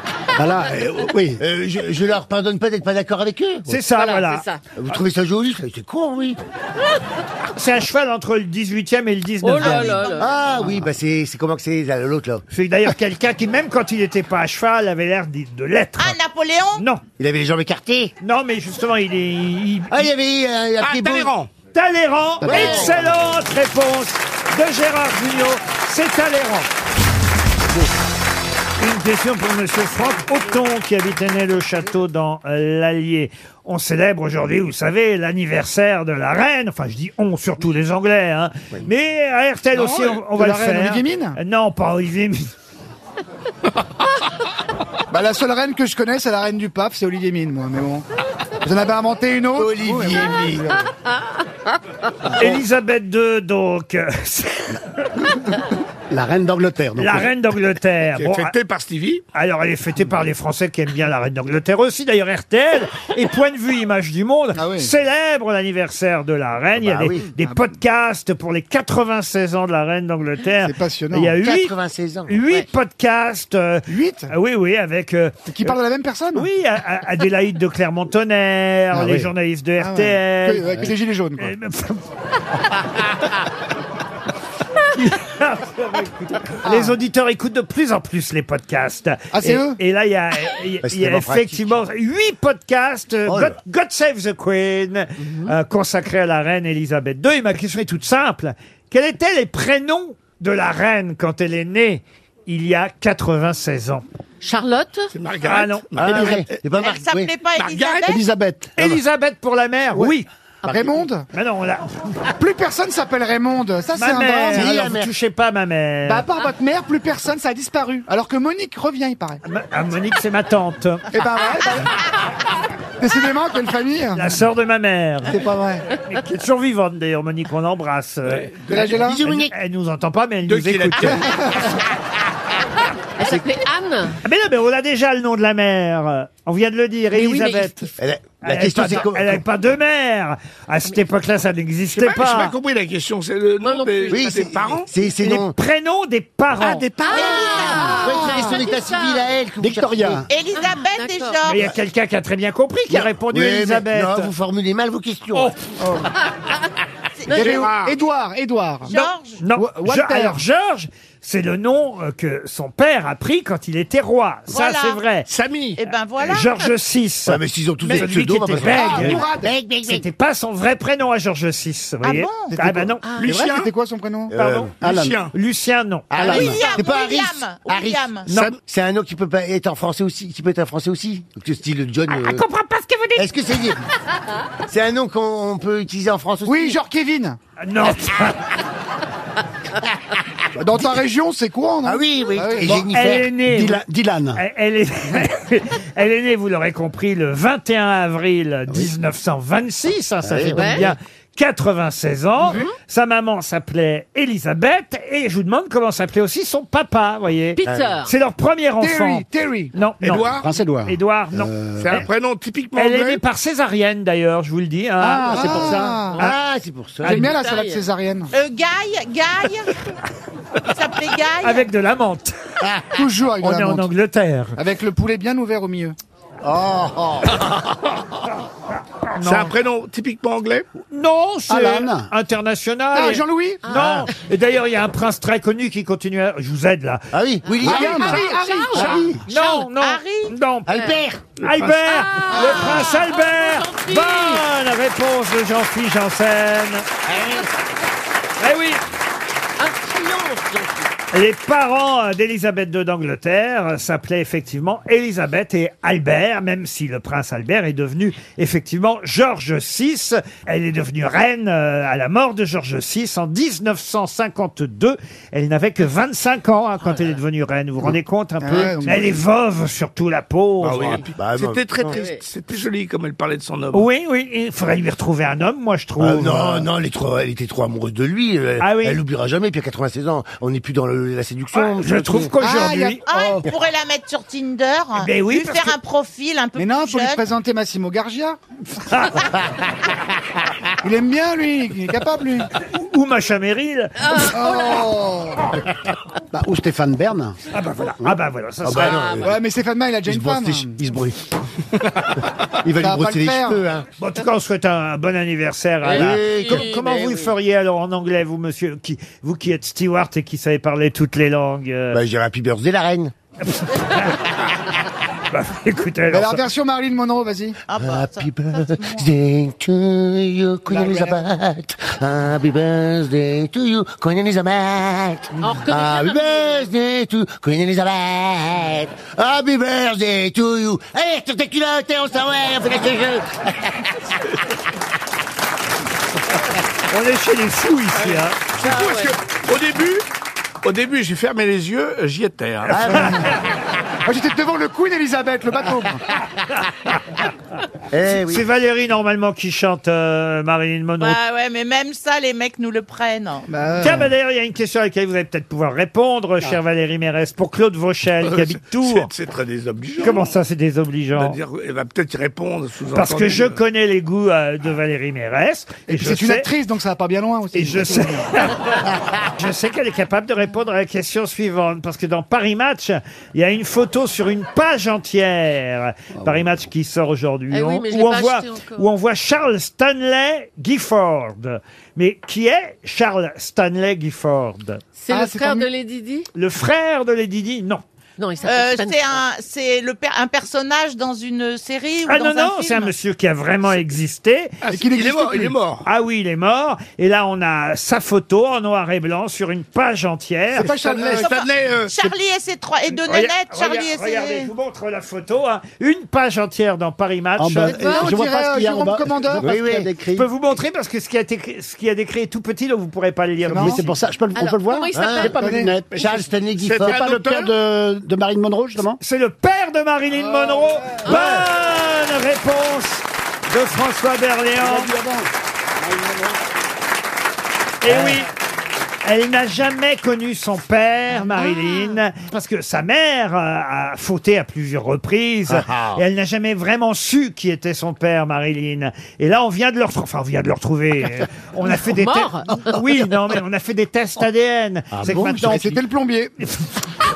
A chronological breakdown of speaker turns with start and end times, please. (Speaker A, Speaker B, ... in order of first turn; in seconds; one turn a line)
Speaker A: 0.3-1.4
Speaker B: 0.6-1.1
Speaker C: 1.4-3.8
Speaker D: 3.7-4.4
Speaker E: 3.9-4.6
Speaker C: 4.8-6.4
Speaker D: 7.5-10.0
Speaker E: 9.4-10.3
Speaker F: 9.6-10.4
Speaker C: 10.2-12.4
Speaker D: 12.5-16.2
Speaker F: 16.0-16.8
Speaker C: 17.2-18.1
Speaker D: 18.2-20.1
Speaker C: 19.9-21.3
Speaker B: 20.8-21.5
Speaker D: 21.7-26.7
Speaker G: 22.4-23.1
Speaker E: 22.5-22.8
Speaker D: 28.8-42.5
Speaker B: 39.8-40.1
Speaker G: 40.2-41.4
Speaker G: 45.1-48.0
Speaker G: 48.6-50.8
Speaker C: 49.5-50.8
Speaker D: 52.4-55.0
Speaker A: 56.1-57.3
Speaker D: 57.0-58.5
Speaker B: 58.1-59.2
Speaker D: 59.3-71.7
Speaker G: 64.5-64.9
Speaker C: 66.7-67.2
Speaker G: 70.6-71.3
Speaker C: 71.4-72.6
Speaker D: 72.3-75.7
Speaker G: 73.9-74.3
Speaker G: 75.5-76.5
Speaker D: 76.3-82.0
Speaker G: 78.9-81.5
Speaker D: 84.9-104.0
Speaker G: 86.6-86.9
Speaker G: 89.3-89.8
Speaker C: 90.8-91.8
Speaker C: 93.2-93.6
Speaker E: 104.4-105.1
Speaker B: 105.1-106.6
Speaker D: 105.4-106.4
Speaker C: 106.0-107.3
Speaker F: 106.7-108.2
Speaker B: 107.5-108.2
Speaker A: 108.1-109.0
Speaker D: 108.8-110.3
Speaker G: 110.6-111.2
Speaker D: 111.3-112.0
Speaker G: 112.4-114.8
Speaker D: 113.9-116.2
Speaker C: 114.5-115.1
Speaker G: 116.0-119.4
Speaker D: 119.4-121.1
Speaker G: 121.1-122.0
Speaker G: 123.0-124.4
Speaker D: 124.1-125.4
Speaker G: 125.3-125.9
Speaker D: 126.0-128.5
Speaker B: 128.2-128.9
Speaker G: 128.7-129.2
Speaker C: 128.8-129.5
Speaker D: 129.2-131.3
Speaker B: 130.4-131.3
Speaker E: 133.2-134.2
Speaker D: 134.2-137.9
Speaker E: 137.1-137.7
Speaker C: 138.0-139.4
Speaker D: 138.4-142.5
Speaker B: 141.9-144.9
Speaker E: 143.6-144.2
Speaker C: 144.1-145.5
Speaker D: 145.2-146.9
Speaker E: 146.6-149.2
Speaker C: 147.1-150.2
Speaker G: 148.1-148.4
Speaker A: 149.6-150.3
Speaker F: 150.3-151.7
Speaker E: 150.5-151.4
Speaker D: 151.4-154.3
Speaker C: 152.9-155.5
Speaker G: 155.8-156.1
Speaker F: 157.2-157.6
Speaker G: 157.3-158.9
Speaker B: 157.3-158.0
Speaker F: 158.8-159.4
Speaker D: 159.4-165.3
Speaker G: 159.5-160.4
Speaker F: 164.5-165.0
Speaker B: 165.3-165.9
Speaker F: 165.8-166.5
Speaker D: 166.3-169.2
Speaker C: 167.2-170.0
Speaker G: 168.6-169.5
Speaker D: 169.8-173.1
Speaker F: 172.0-172.5
Speaker G: 172.5-174.3
Speaker B: 173.1-173.7
Speaker C: 174.3-174.7
Speaker D: 174.3-174.8
Speaker B: 174.8-175.3
Speaker A: 174.8-175.2
Speaker D: 175.3-176.5
Speaker C: 176.1-178.0
Speaker F: 176.2-178.3
Speaker A: 176.2-176.5
Speaker D: 178.3-178.5
Speaker B: 178.3-178.5
Speaker C: 178.6-182.4
Speaker D: 182.1-183.2
Speaker C: 183.2-183.8
Speaker C: 184.7-186.8
Speaker G: 186.4-187.4
Speaker D: 187.6-188.4
Speaker G: 190.6-192.8
Speaker C: 191.8-193.3
Speaker D: 192.7-210.3
Speaker A: 193.4-194.4
Speaker C: 200.2-200.9
Speaker E: 200.5-200.9
Speaker E: 207.6-208.1
Speaker C: 207.6-208.0
Speaker G: 208.8-209.7
Speaker B: 210.0-210.5
Speaker A: 210.4-212.1
Speaker D: 210.8-212.1
Speaker B: 211.8-213.2
Speaker D: 212.8-216.3
Speaker G: 215.0-216.2
Speaker A: 215.3-216.0
Speaker C: 215.3-217.3
Speaker E: 217.0-217.9
Speaker G: 217.0-218.3
Speaker F: 218.3-219.8
Speaker F: 220.7-221.7
Speaker D: 221.4-222.5
Speaker G: 222.9-223.9
Speaker D: 223.4-224.6
Speaker G: 224.6-225.9
Speaker C: 226.4-227.5
Speaker D: 229.1-229.5
Speaker B: 229.2-230.7
Speaker D: 230.9-237.1
Speaker A: 231.5-232.1
Speaker G: 232.9-233.6
Speaker C: 233.7-234.1
Speaker E: 233.7-234.0
Speaker C: 237.1-238.8
Speaker E: 237.4-239.1
Speaker G: 237.6-239.2
Speaker A: 238.8-239.2
Speaker F: 239.3-240.3
Speaker D: 239.3-240.8
Speaker C: 240.7-241.2
Speaker E: 240.7-241.0
Speaker D: 241.4-246.9
Speaker B: 241.4-241.8
Speaker E: 241.8-244.4
Speaker G: 242.3-242.8
Speaker C: 247.1-247.4
Speaker D: 248.4-248.8
Speaker E: 249.6-250.8
Speaker D: 251.1-271.0
Speaker G: 268.4-269.2
Speaker B: 270.6-273.9
Speaker C: 271.2-272.0
Speaker E: 271.9-272.2
Speaker D: 273.7-276.7
Speaker C: 276.0-282.3
Speaker D: 278.6-279.0
Speaker D: 281.5-283.0
Speaker G: 282.4-283.4
Speaker F: 283.1-287.2
Speaker D: 285.0-285.7
Speaker G: 286.6-288.4
Speaker D: 288.8-289.2
Speaker G: 290.8-292.5
Speaker D: 292.6-294.3
Speaker E: 294.0-294.8
Speaker G: 294.3-295.5
Speaker A: 296.3-297.4
Speaker D: 297.5-299.1
Speaker C: 298.6-299.4
Speaker E: 298.9-299.2
Speaker G: 299.2-300.8
Speaker C: 300.1-301.3
Speaker C: 302.6-303.9
Speaker G: 302.8-303.6
Speaker D: 304.0-312.0
Speaker E: 305.8-307.3
Speaker C: 305.9-306.7
Speaker C: 311.9-313.1
Speaker D: 313.5-314.1
Speaker D: 315.3-316.4
Speaker G: 316.1-317.6
Speaker F: 317.7-319.1
Speaker C: 317.8-334.1
Speaker G: 320.7-321.2
Speaker E: 325.4-326.7
Speaker D: 336.9-338.4
Speaker B: 338.5-340.0
Speaker E: 338.6-339.1
Speaker B: 340.6-343.1
Speaker C: 342.6-343.4
Speaker G: 342.9-343.3
Speaker G: 344.0-346.0
Speaker C: 347.9-348.4
Speaker D: 348.1-351.2
Speaker F: 351.0-353.5
Speaker G: 353.5-354.1
Speaker D: 353.8-359.1
Speaker B: 358.2-360.3
Speaker D: 360.0-361.4
Speaker B: 361.1-363.6
Speaker D: 362.9-366.5
Speaker G: 365.9-368.3
Speaker D: 367.5-368.8
Speaker D: 369.4-384.8
Speaker E: 377.5-378.9
Speaker E: 384.9-386.3
Speaker G: 385.1-385.7
Speaker D: 386.3-387.8
Speaker E: 388.2-389.2
Speaker F: 388.4-392.9
Speaker D: 392.1-394.5
Speaker B: 394.6-395.8
Speaker G: 394.7-395.6
Speaker D: 395.8-400.7
Speaker G: 400.5-401.3
Speaker B: 400.7-402.1
Speaker F: 401.2-404.5
Speaker D: 403.0-407.8
Speaker A: 407.4-410.3
Speaker G: 407.7-409.6
Speaker E: 407.7-408.1
Speaker C: 409.4-409.9
Speaker D: 410.1-414.0
Speaker G: 413.5-413.8
Speaker A: 413.5-416.1
Speaker E: 414.3-415.7
Speaker C: 414.9-417.5
Speaker G: 415.2-415.7
Speaker B: 415.9-417.5
Speaker A: 416.8-419.0
Speaker D: 419.0-424.9
Speaker G: 420.2-421.4
Speaker E: 421.0-421.3
Speaker A: 424.6-425.3
Speaker A: 425.8-426.3
Speaker D: 427.8-428.3
Speaker D: 429.0-445.8
Speaker E: 431.6-432.0
Speaker C: 435.5-436.0
Speaker E: 441.7-442.6
Speaker C: 444.9-445.8
Speaker G: 445.4-446.4